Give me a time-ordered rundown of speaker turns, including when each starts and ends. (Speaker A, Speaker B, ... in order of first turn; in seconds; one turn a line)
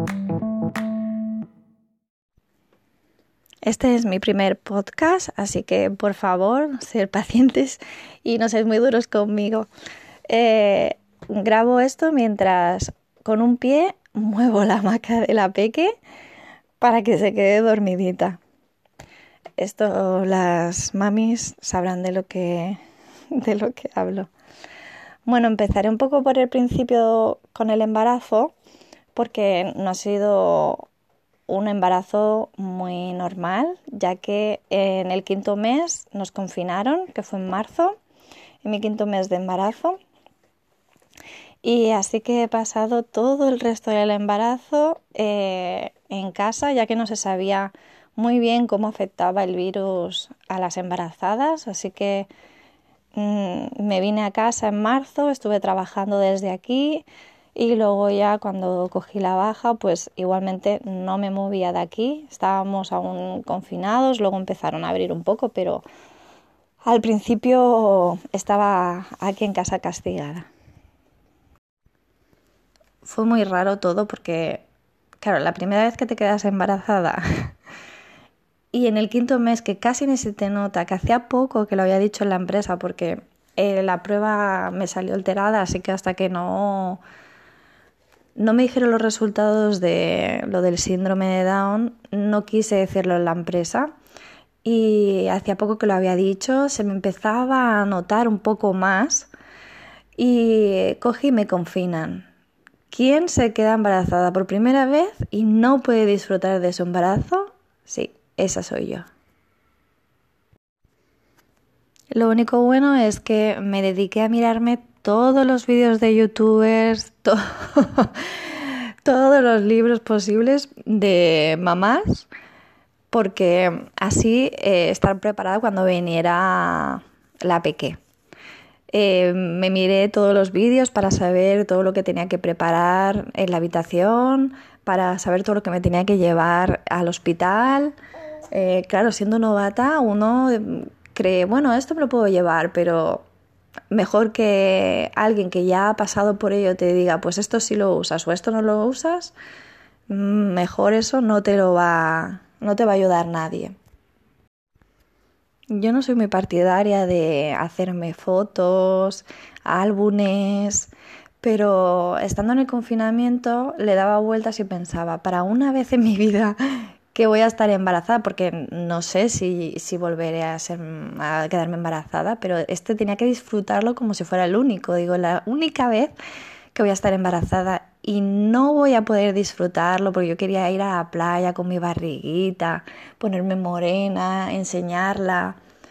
Speaker A: 3.6-9.7
Speaker A: 10.3-15.9
Speaker A: 16.8-18.4
Speaker A: 19.6-22.8
Speaker A: 23.3-24.3
Speaker A: 25.2-28.5
Speaker A: 29.1-30.8
Speaker A: 31.5-38.0
Speaker A: 38.6-40.0
Speaker A: 41.6-52.3
Speaker A: 53.1-65.8
Speaker A: 66.8-70.5
Speaker A: 73.0-74.6
Speaker A: 75.2-77.5
Speaker A: 78.7-87.0
Speaker A: 88.3-93.9
Speaker A: 94.6-99.3
Speaker A: 100.2-102.2
Speaker A: 102.9-109.1
Speaker A: 112.1-122.3
Speaker A: 123.1-128.0
Speaker A: 128.9-137.9
Speaker A: 138.5-143.2
Speaker A: 143.9-149.3
Speaker A: 150.1-153.7
Speaker A: 155.7-160.9
Speaker A: 161.4-176.1
Speaker A: 176.7-185.6